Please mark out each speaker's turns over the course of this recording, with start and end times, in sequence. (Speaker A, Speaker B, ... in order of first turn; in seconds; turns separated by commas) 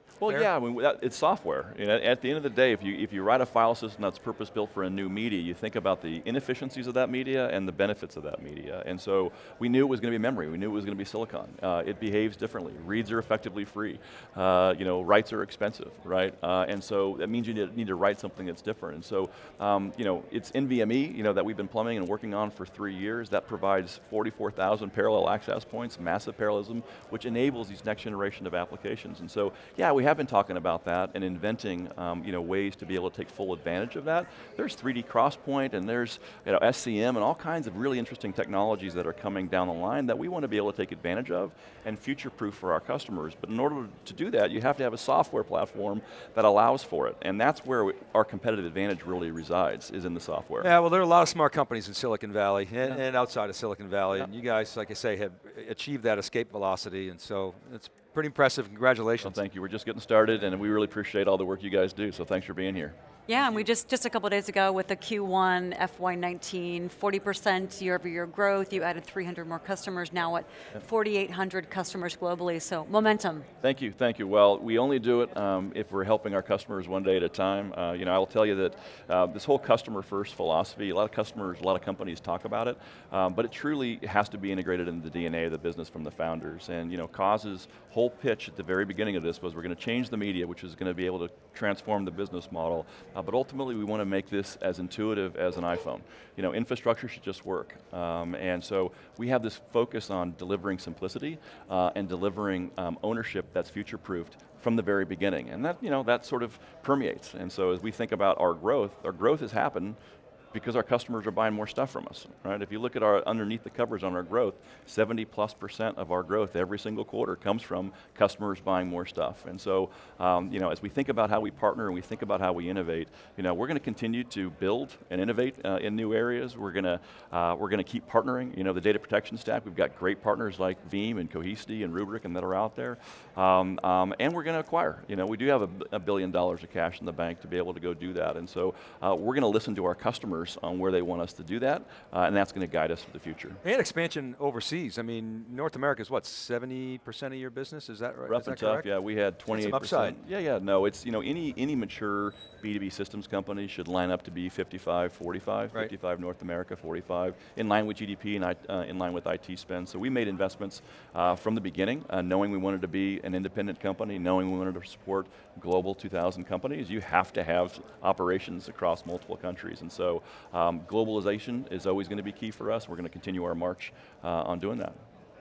Speaker A: 0.2-50.7, Speaker B: 50.6-59.4, Speaker A: 59.2-63.0, Speaker C: 63.3-73.5, Speaker A: 73.6-110.0, Speaker A: 110.5-143.6, Speaker B: 143.6-148.9, Speaker A: 148.3-175.0, Speaker B: 149.5-150.2